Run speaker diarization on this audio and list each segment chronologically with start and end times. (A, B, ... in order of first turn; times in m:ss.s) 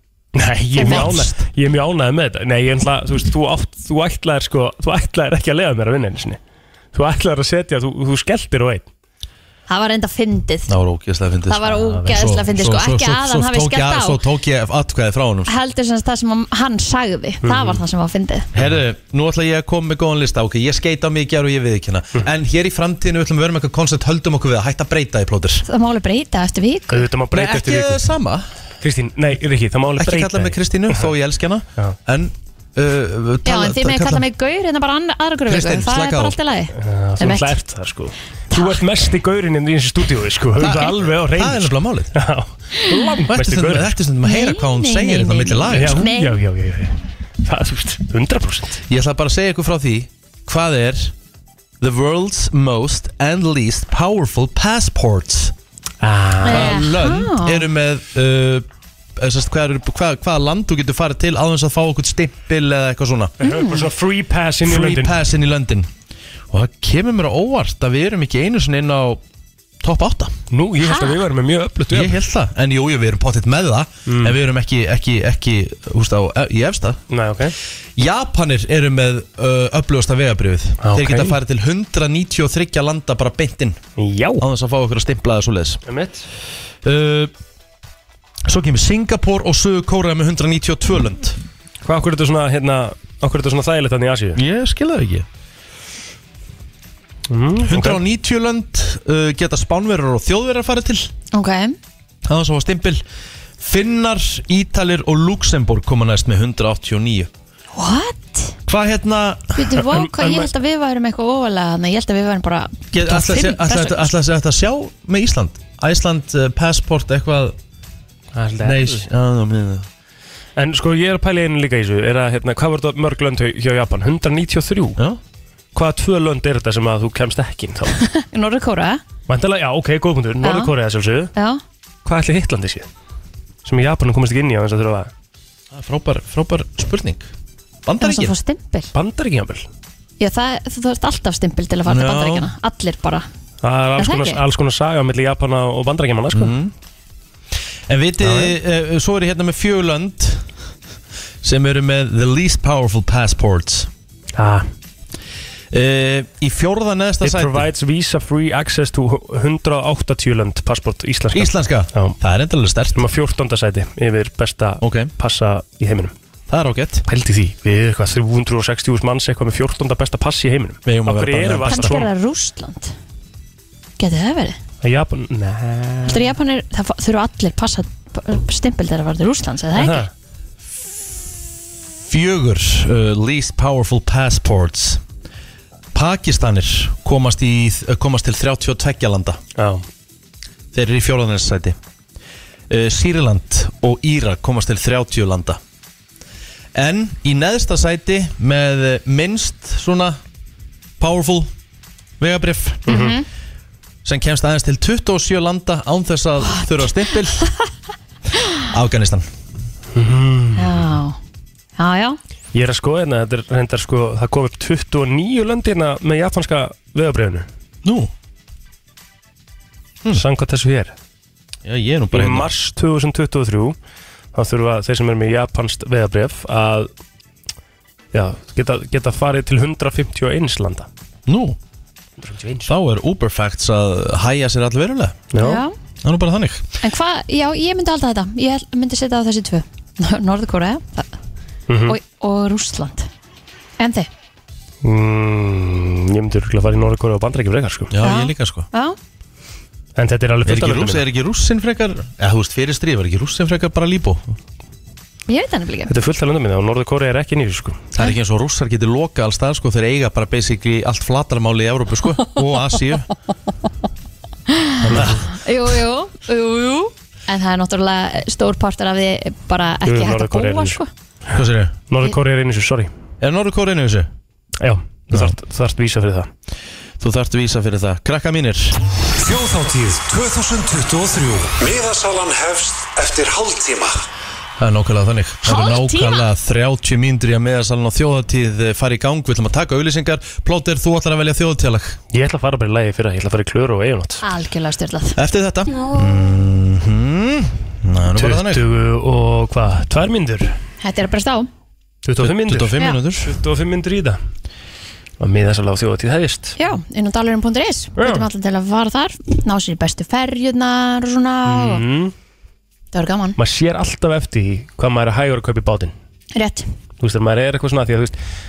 0:00.4-0:06.4 A
0:00.8-0:01.1 B
0:00.8-0:01.4 C
0:06.9-0:08.9 A
0:09.7-0:10.8 B
0:10.7-0:15.5 C
0:11.5-0:14.2 B
0:15.5-0:18.5 B
0:17.4-0:17.8 A
0:18.6-0:25.6 C
0:25.7-0:27.1 B
0:26.9-0:28.0 A
0:27.3-0:28.5 C
0:28.8-0:31.0 A
0:30.0-0:34.3 C
0:33.4-0:37.6 B
0:35.5-0:36.4 C
0:36.8-0:43.9 A
0:38.5-0:38.8 B
0:40.6-0:42.1 C
0:43.3-0:46.1 C
0:44.2-0:46.4 B
0:45.7-0:48.8 A
0:48.9-0:51.1 C
0:51.8-0:55.6 C
0:56.0-0:56.8 A
0:56.4-0:58.6 C
0:56.4-0:57.7 B
0:59.2-1:03.3 C
1:03.4-1:03.9 B
1:03.4-1:05.2 A
1:04.7-1:05.9 C
1:06.5-1:09.2 C
1:09.8-1:10.4 C
1:10.5-1:12.2 A
1:10.8-1:11.2 B
1:11.9-1:17.0 C
1:14.1-1:14.4 A
1:17.1-1:17.6 A
1:18.0-1:23.8 C
1:20.8-1:21.4 A
1:24.0-1:24.4 A
1:24.4-1:25.8 C
1:25.9-1:26.2 A
1:26.8-1:27.3 C
1:28.5-1:31.4 C
1:31.8-1:34.4 A
1:34.4-1:35.3 C
1:37.3-1:38.0 A
1:37.6-1:41.1 C
1:41.3-1:41.8 B
1:42.3-1:43.0 C
1:43.6-1:47.3 C
1:47.8-1:48.6 B
1:48.7-1:49.6 C
1:49.6-1:54.1 B
1:49.8-1:50.5 A
1:52.9-1:57.6 C
1:58.4-1:59.1 A
1:58.6-1:59.9 C
2:00.6-2:05.0 A
2:05.8-2:07.9 A
2:08.0-2:09.0 B
2:09.3-2:11.3 A
2:10.4-2:10.7 B
2:11.4-2:11.6 B
2:12.0-2:12.9 A
2:13.6-2:15.1 A
2:15.7-2:17.3 C
2:17.9-2:18.3 C
2:18.0-2:18.9 B
2:18.9-2:19.7 A
2:20.2-2:23.3 B
2:21.9-2:22.5 C
2:23.6-2:26.5 A
2:24.0-2:24.4 B
2:26.3-2:26.7 C
2:27.9-2:30.5 C
2:28.2-2:28.6 A
2:31.4-2:33.9 C
2:34.4-2:34.7 A
2:35.7-2:37.7 C
2:37.2-2:42.2 A
2:41.3-2:43.0 C
2:43.0-2:46.1 A
2:44.8-2:45.1 C
2:46.5-2:47.0 C
2:47.1-2:52.1 A
2:50.9-2:52.0 C
2:51.7-2:52.9 B
2:54.0-2:54.6 B
2:54.8-2:56.4 A
2:56.1-3:00.0 B
2:59.8-3:00.1 A
3:02.0-3:05.0 C
3:05.9-3:09.4 C
3:09.6-3:09.8 A
3:10.7-3:11.8 C
3:12.7-3:15.6 C
3:16.8-3:20.2 C
3:21.0-3:21.5 C
3:22.2-3:22.9 C
3:22.9-3:23.2 A
3:22.9-3:23.2 B
3:24.0-3:27.4 C
3:28.7-3:29.3 C
3:30.0-3:30.9 A
3:30.6-3:31.2 B
3:31.8-3:32.2 B
3:32.5-3:37.5 A
3:37.8-3:38.1 C
3:40.1-3:40.9 A
3:41.6-3:42.5 C
3:42.1-3:43.8 A
3:44.3-3:46.9 A
3:48.1-3:50.9 A
3:51.3-3:51.6 C
3:52.2-3:52.7 A
3:52.7-3:55.2 C
3:55.3-3:55.6 A
3:55.4-3:55.7 B
3:56.0-3:56.6 C
3:56.8-4:01.1 B
4:01.7-4:02.0 A
4:01.9-4:03.1 B
4:03.8-4:04.1 B
4:04.8-4:07.9 A
4:07.9-4:08.7 C
4:08.0-4:09.0 B
4:10.0-4:11.0 A
4:10.4-4:14.3 C
4:15.3-4:15.9 B
4:15.9-4:17.8 A
4:17.9-4:23.1 C
4:24.5-4:30.9 B
4:24.8-4:25.3 C
4:24.9-4:25.2 A
4:29.8-4:30.8 A
4:31.3-4:31.8 C
4:31.9-4:32.9 A
4:33.2-4:34.1 C
4:34.6-4:36.3 A
4:37.0-4:38.8 C
4:39.3-4:39.6 A
4:39.8-4:41.5 C
4:41.5-4:44.0 D
4:44.6-4:52.0 C
4:45.4-4:46.3 B
4:52.1-4:54.2 A
4:54.2-4:55.2 B
4:55.2-4:58.6 C
4:58.2-5:00.5 A
5:00.8-5:01.5 B
5:02.0-5:04.2 A
5:02.2-5:03.3 C
5:05.2-5:06.6 A
5:06.6-5:11.8 B
5:08.0-5:08.3 A
5:11.5-5:12.1 A
5:12.9-5:13.4 B
5:13.4-5:15.9 A
5:16.4-5:16.7 B
5:17.0-5:18.2 A